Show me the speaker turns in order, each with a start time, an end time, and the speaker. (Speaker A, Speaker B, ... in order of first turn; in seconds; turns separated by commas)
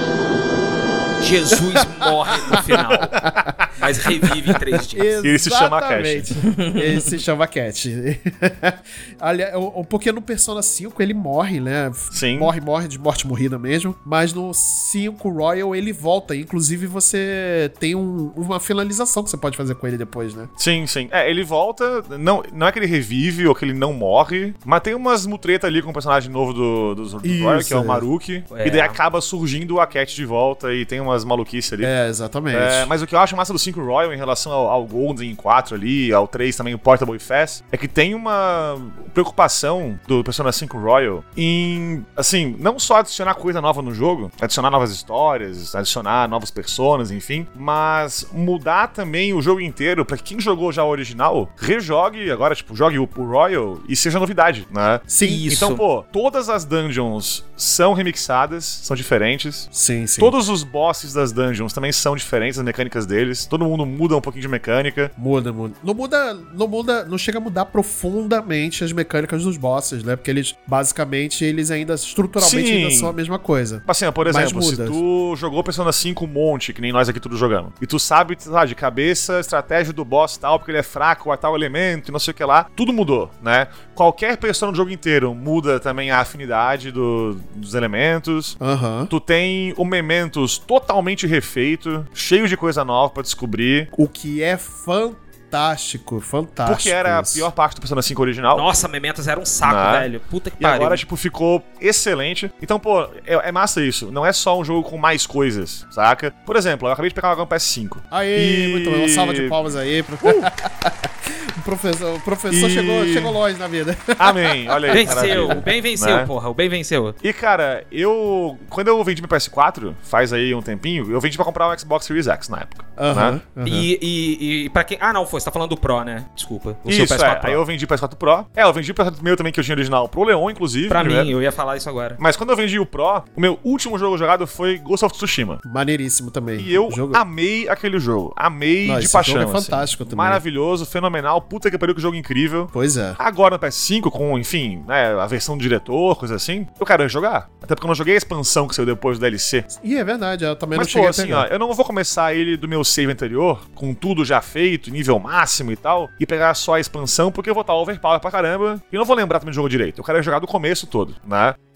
Speaker A: 1.2-3.1, Speaker B: 1.7-2.6, Speaker C: 3.0-3.7, Speaker B: 3.2-3.5, Speaker A: 3.8-5.1, Speaker B: 4.8-20.5, Speaker C: 5.2-6.3, Speaker A: 6.5-7.2, Speaker C: 12.1-12.5, Speaker C: 20.6-31.9, Speaker B: 27.2-28.1, Speaker A: 28.5-29.0, Speaker B: 31.8-32.9, Speaker C: 32.5-65.1, Speaker B: 55.1-55.5, Speaker A: 55.2-55.8, Speaker B: 59.7-60.4, Speaker B: 65.2-75.0, Speaker C: 72.4-73.2, Speaker C: 73.9-88.6, Speaker B: 88.6-89.1, Speaker C: 89.1-93.9, Speaker B: 93.9-97.5, Speaker C: 96.7-98.7, Speaker A: 98.5-101.0, Speaker C: 99.6-100.1, Speaker C: 100.6-109.6, Speaker B: 108.1-115.7, Speaker C: 112.5-113.4, Speaker C: 114.2-116.3, Speaker A: 114.9-117.2, Speaker C: 117.2-123.4, Speaker B: 123.0-123.9, Speaker A: 123.7-127.6, Speaker C: 126.9-131.3, Speaker A: 130.9-132.2, Speaker C: 132.2-135.6, Speaker B: 135.6-137.2, Speaker C: 136.6-149.7, Speaker B: 138.8-140.4, Speaker B: 142.7-143.2, Speaker B: 149.7-151.5, Speaker C: 150.7-161.6